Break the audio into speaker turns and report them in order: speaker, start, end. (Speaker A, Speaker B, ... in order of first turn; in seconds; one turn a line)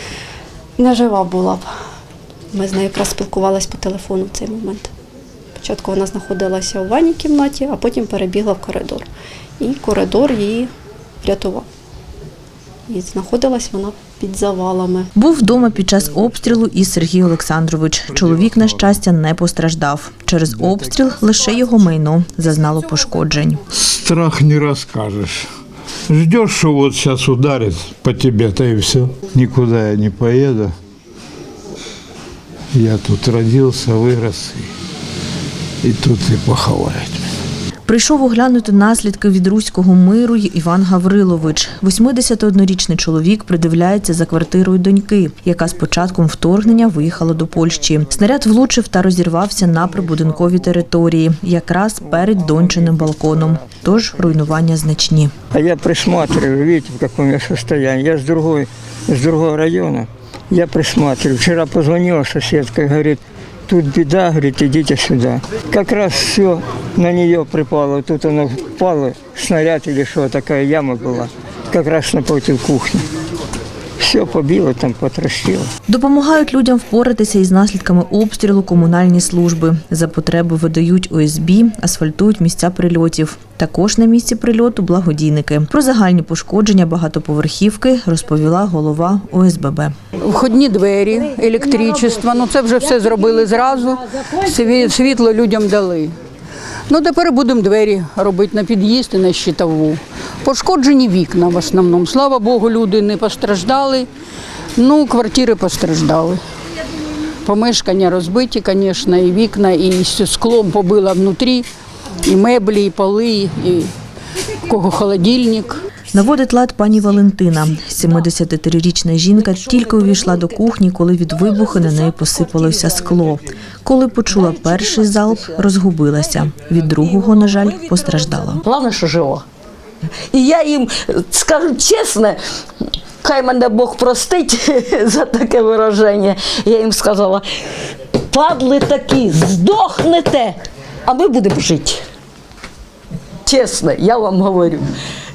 Speaker A: 0.8-1.7
Speaker A: 2.5-4.9
Speaker A: 5.6-9.1
Speaker A: 9.6-10.7
Speaker A: 11.2-11.7
Speaker A: 12.9-15.1
Speaker B: 15.2-23.6
Speaker C: 18.1-19.0
Speaker C: 23.7-25.5
Speaker C: 26.1-30.7
Speaker C: 32.7-34.7
Speaker C: 35.8-37.3
Speaker B: 37.9-55.3
Speaker D: 52.0-54.6
Speaker D: 55.5-73.0
Speaker D: 74.0-75.7
Speaker B: 75.9-90.0
Speaker E: 90.2-96.1
Speaker E: 96.9-104.1
Speaker E: 104.8-106.4
Speaker E: 107.5-111.7
Speaker E: 112.2-113.9
Speaker E: 114.6-115.8
Speaker B: 116.1-128.6
Speaker F: 128.7-129.4
Speaker F: 130.3-132.4
Speaker F: 133.2-137.5
Speaker F: 138.3-142.0
Speaker F: 143.5-144.9